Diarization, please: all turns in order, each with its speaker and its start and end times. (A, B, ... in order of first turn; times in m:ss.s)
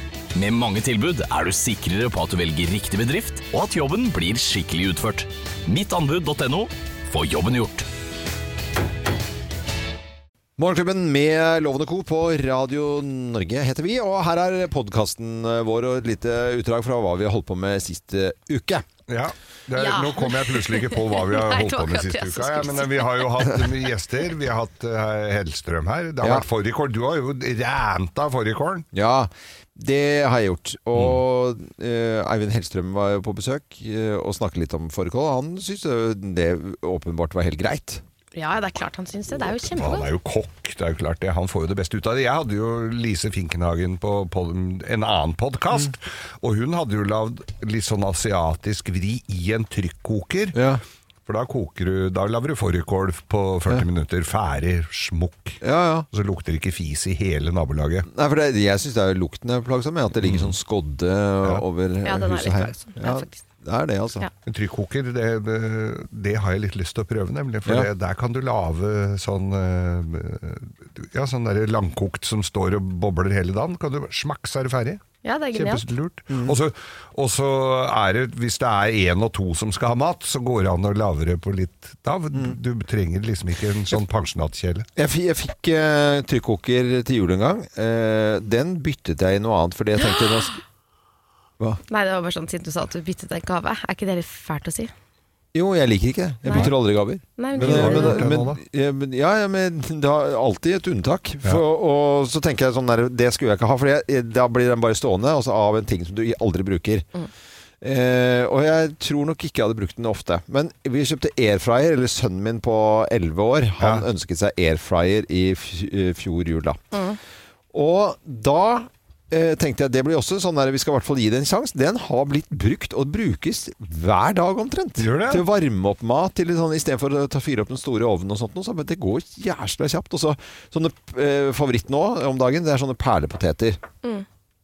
0:00.3-0:07.8 A
0:10.6-0:18.8 B
0:19.1-0:28.8 C
0:19.8-0:23.6 D
0:26.2-0:26.4 B
0:28.9-0:38.0 B
0:38.3-0:40.1 D
0:39.4-0:50.6 C
0:50.5-0:50.8 B
0:51.2-0:55.6 C
0:55.6-0:56.1 B
0:56.1-0:58.1 C
0:58.1-1:04.2 B
1:00.2-1:00.5 C
1:02.0-1:03.4 D
1:04.4-1:15.0 C
1:15.2-1:15.8 D
1:15.5-1:24.8 C
1:16.3-1:16.6 B
1:25.0-1:30.6 B
1:30.0-1:30.5 D
1:31.9-1:34.9 D
1:35.5-1:47.1 B
1:36.4-1:36.7 D
1:37.4-1:38.2 D
1:37.5-1:38.6 C
1:47.8-1:56.8 B
1:53.8-1:54.0 C
1:56.9-1:57.2 D
1:57.7-2:13.8 B
2:05.0-2:05.4 C